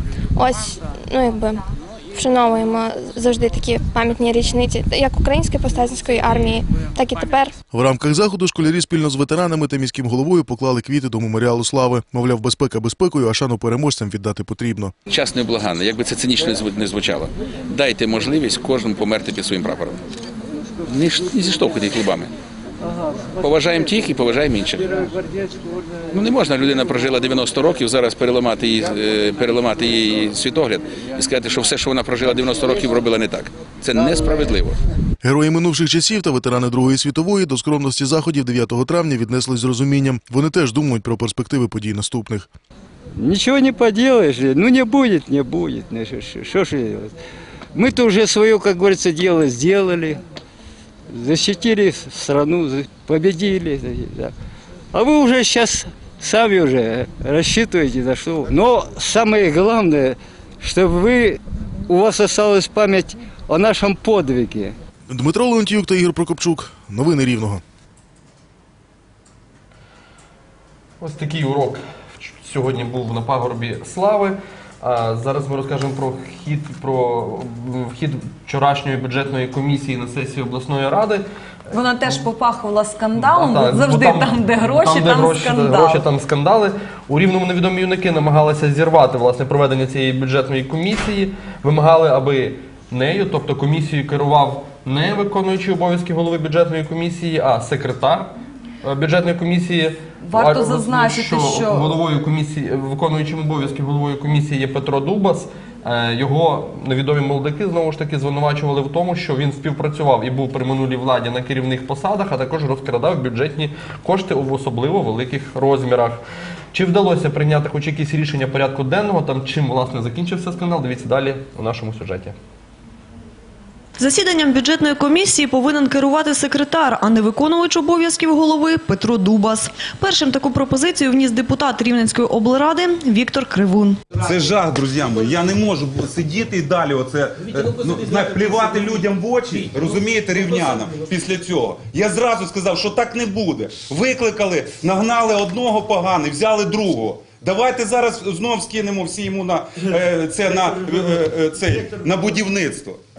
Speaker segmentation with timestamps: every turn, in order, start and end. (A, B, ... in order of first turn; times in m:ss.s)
0:00.4-0:01.6 A
0:02.1-0:07.6 A
0:07.7-0:14.9 B
0:15.1-0:20.0 C
0:20.9-0:22.3 C
0:23.4-0:24.9 C
0:26.1-0:34.8 C
0:35.2-0:42.5 B
0:43.2-0:47.1 D
0:47.7-0:50.2 D
0:51.1-0:54.3 D
0:54.9-1:04.7 D
1:05.1-1:07.6 B
1:11.0-1:21.2 E
1:21.7-1:26.0 F
1:23.2-1:38.3 E
1:38.8-1:56.2 E
1:40.2-1:42.0 F
1:56.7-2:02.4 E
2:04.0-2:14.0 G
2:14.2-2:33.0 H